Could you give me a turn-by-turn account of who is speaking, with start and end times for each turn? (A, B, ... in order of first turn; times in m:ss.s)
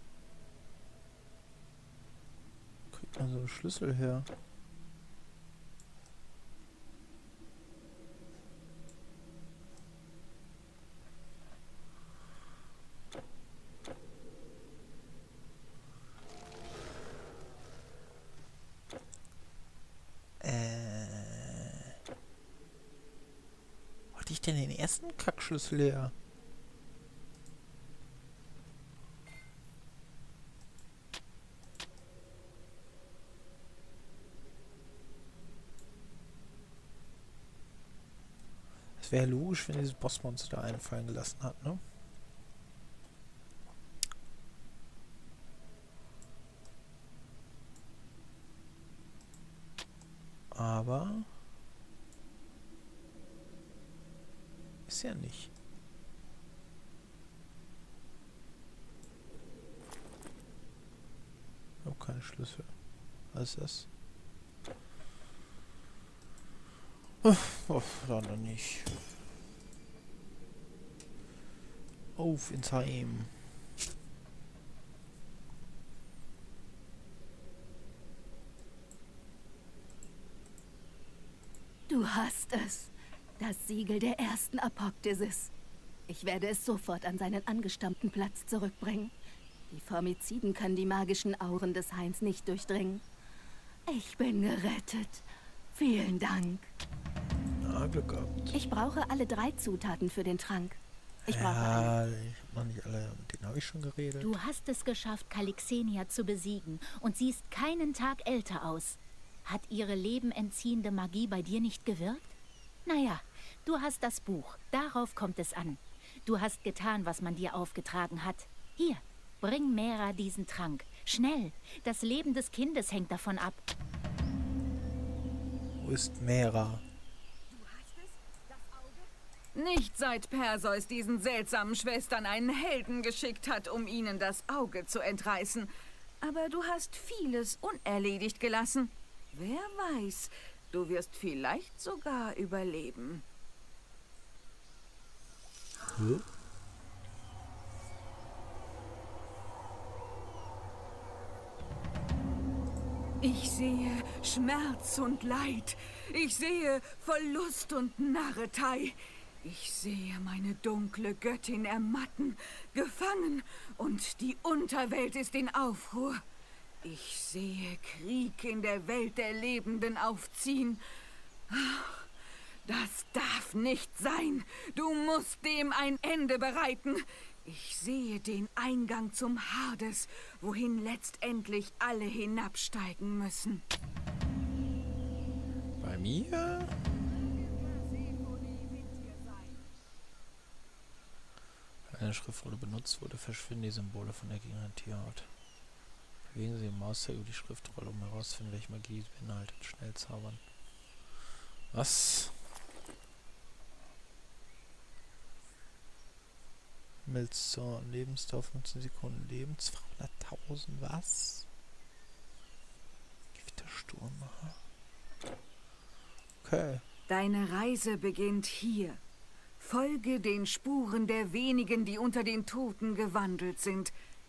0:02.9-0:04.3 A
0:20.4-0:21.9 A
0:24.1-0:26.1 A
0:39.0-0:41.8 A
0:50.5-0:51.4 A
0:54.9-0:55.5 A
1:01.8-1:02.7 A
1:03.3-1:03.9 A
1:07.2-1:09.1 A
1:12.1-1:13.6 A
1:21.9-1:25.5 B
1:26.1-1:29.1 B
1:29.7-1:33.0 B
1:33.9-1:36.7 B
1:37.6-1:38.6 A
1:38.5-1:41.9 B
1:41.3-1:44.4 A
1:44.2-1:52.3 C
1:52.9-2:03.6 C
2:05.8-2:06.9 A
2:07.5-2:15.7 D
2:16.2-2:23.2 D
2:26.0-2:26.3 A
2:33.2-2:46.2 D
2:46.8-2:50.8 D
2:51.5-2:52.1 D
2:52.6-3:03.6 D
3:05.8-3:06.7 A
3:07.0-3:09.7 D
3:11.9-3:15.3 A
3:16.3-3:20.4 A
3:21.7-3:22.4 A
3:27.0-3:31.5 A
3:33.3-3:34.6 A
3:36.4-3:36.8 A
3:37.1-3:39.0 D
3:39.6-3:43.9 D